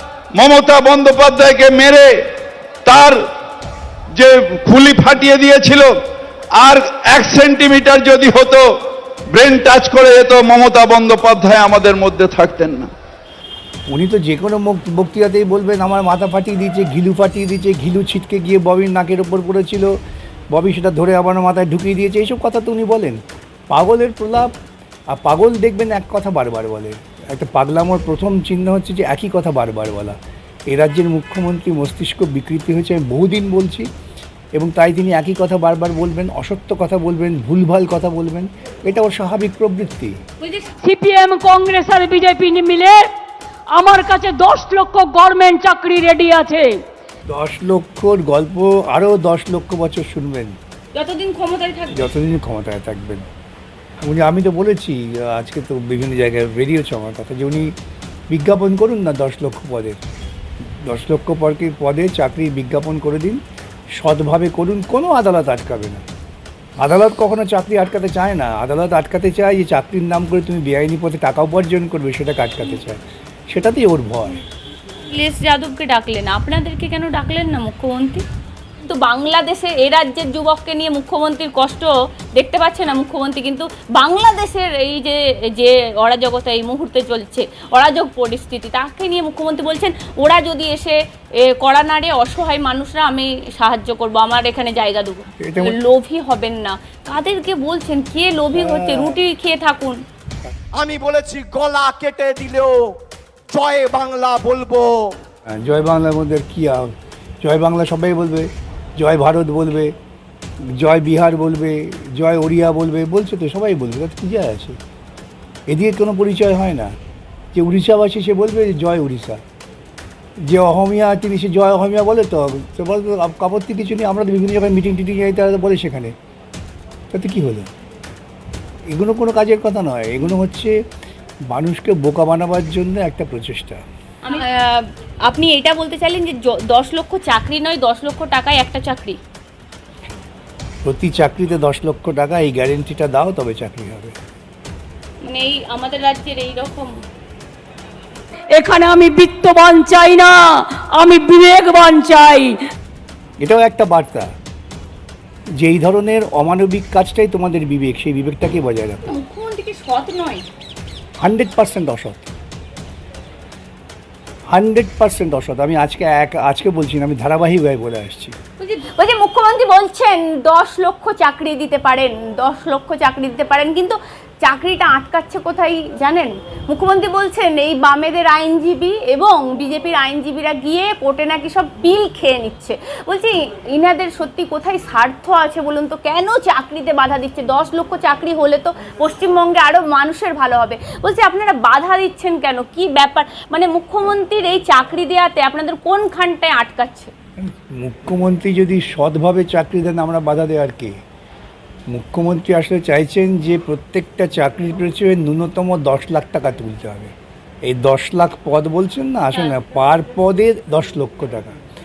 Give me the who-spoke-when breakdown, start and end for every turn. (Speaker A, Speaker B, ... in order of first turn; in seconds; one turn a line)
Speaker A: 0.3-2.3
Speaker A: 2.8-3.2
Speaker A: 4.1-5.9
Speaker A: 6.5-8.6
Speaker A: 9.3-12.9
Speaker B: 13.9-19.9
Speaker B: 20.5-23.2
Speaker B: 23.7-24.5
Speaker B: 25.1-30.1
Speaker B: 30.7-33.9
Speaker B: 34.5-40.1
Speaker C: 40.4-40.7
Speaker D: 40.8-43.1
Speaker D: 43.7-46.8
Speaker B: 47.3-50.6
Speaker C: 50.9-52.1
Speaker B: 51.9-53.3
Speaker B: 54.0-57.7
Speaker B: 58.3-60.0
Speaker B: 60.8-63.4
Speaker B: 64.0-66.0
Speaker B: 66.8-74.4
Speaker C: 75.1-78.2
Speaker C: 78.8-100.0
Speaker B: 95.4-95.8
Speaker B: 98.5-99.2
Speaker E: 100.7-103.0
Speaker E: 103.5-105.2
Speaker B: 105.5-109.9
Speaker B: 110.6-114.8
Speaker B: 115.7-116.9
Speaker B: 117.5-119.4
Speaker B: 120.4-126.1
Speaker B: 127.1-127.7
Speaker B: 128.9-130.8
Speaker B: 131.5-133.8
Speaker C: 134.2-139.2
Speaker B: 140.8-144.1
Speaker C: 145.2-147.0
Speaker D: 148.5-152.6
Speaker B: 153.4-154.3
Speaker B: 155.6-159.0
Speaker C: 159.1-160.4
Speaker B: 161.2-162.3
Speaker B: 164.5-168.3
Speaker C: 168.6-197.1
Speaker B: 197.4-201.0
Speaker B: 201.9-207.1
Speaker B: 207.6-211.5